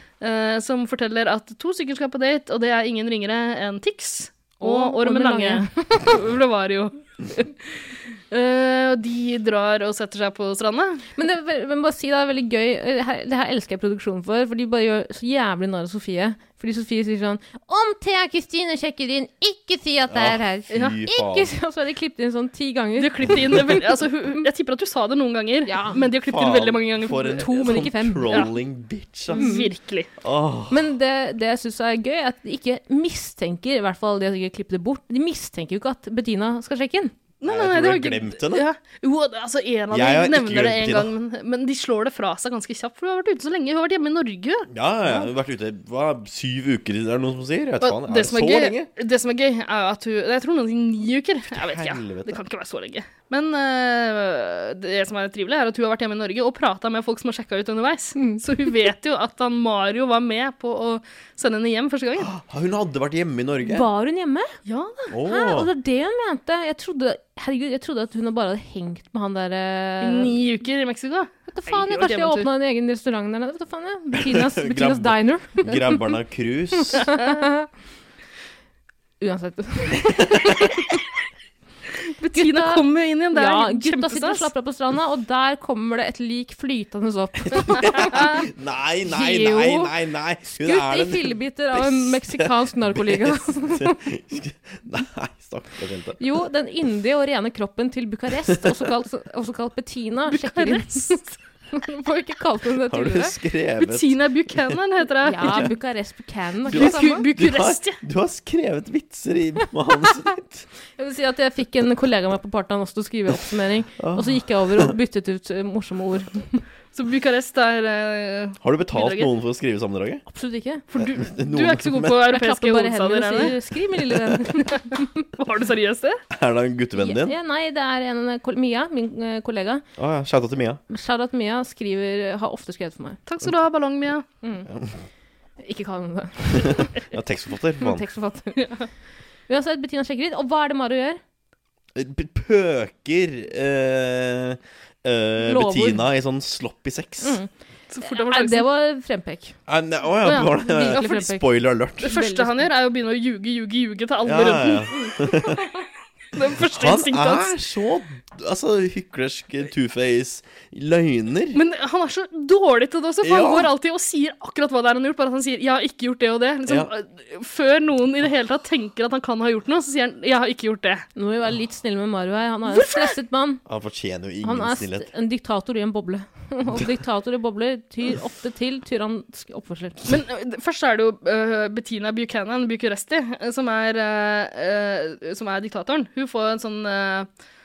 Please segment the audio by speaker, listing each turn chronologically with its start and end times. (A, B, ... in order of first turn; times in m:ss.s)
0:00.2-0:11.0 A
0:04.6-0:06.2 B
0:11.2-0:23.8 B
0:20.1-0:21.5 C
0:23.0-0:27.8 A
0:25.6-0:26.0 B
0:26.1-0:29.5 C
0:27.3-0:28.5 B
0:29.3-0:30.1 A
0:29.3-0:29.7 B
0:30.2-0:30.8 C
0:30.7-0:37.1 B
0:37.4-0:44.7 A
0:37.4-0:38.6 C
0:39.9-0:41.1 C
0:44.7-0:48.9 C
0:47.8-1:02.3 A
0:51.5-0:52.4 C
1:02.2-1:03.8 C
1:03.6-1:04.6 B
1:04.6-1:05.1 A
1:05.1-1:05.7 C
1:05.2-1:10.3 B
1:10.0-1:12.5 A
1:11.5-1:16.0 B
1:14.1-1:17.1 C
1:16.9-1:17.7 B
1:17.0-1:17.4 A
1:19.2-1:21.0 B
1:22.0-1:24.5 A
1:22.3-1:28.4 B
1:27.5-1:36.2 C
1:29.0-1:29.9 B
1:30.5-1:34.0 B
1:36.2-1:41.2 B
1:40.3-1:41.3 A
1:41.7-1:43.3 B
1:42.9-1:44.2 C
1:43.8-1:45.7 A
1:45.2-1:47.2 B
1:46.7-1:48.0 A
1:46.7-1:50.6 C
1:51.0-1:56.6 B
1:54.0-1:54.9 C
1:56.9-1:59.3 A
1:58.6-2:00.2 C
2:00.3-2:00.8 B
2:00.9-2:03.6 A
2:01.0-2:02.2 C
2:02.2-2:05.0 B
2:05.4-2:06.2 A
2:06.3-2:07.4 C
2:07.0-2:09.8 B
2:10.0-2:10.8 C
2:10.9-2:13.2 B
2:13.3-2:14.2 A
2:14.4-2:14.7 B
2:14.7-2:15.0 C
2:15.6-2:16.9 B
2:16.5-2:18.0 C
2:17.8-2:18.7 B
2:18.6-2:18.9 A
2:19.5-2:21.2 B
2:21.9-2:27.4 C
2:25.4-2:26.1 B
2:27.2-2:27.5 B
2:27.9-2:28.6 A
2:28.0-2:29.6 B
2:29.7-2:32.1 C
2:30.2-2:31.1 A
2:30.5-2:31.5 B
2:32.0-2:32.7 B
2:32.0-2:35.2 A
2:34.2-2:35.6 C
2:36.3-2:37.5 A
2:36.7-2:41.6 C
2:41.5-2:51.0 A
2:43.2-2:43.7 C
2:51.1-2:53.6 B
2:52.7-2:53.1 A
2:53.6-2:55.1 C
2:54.4-3:00.1 B
3:00.0-3:07.3 A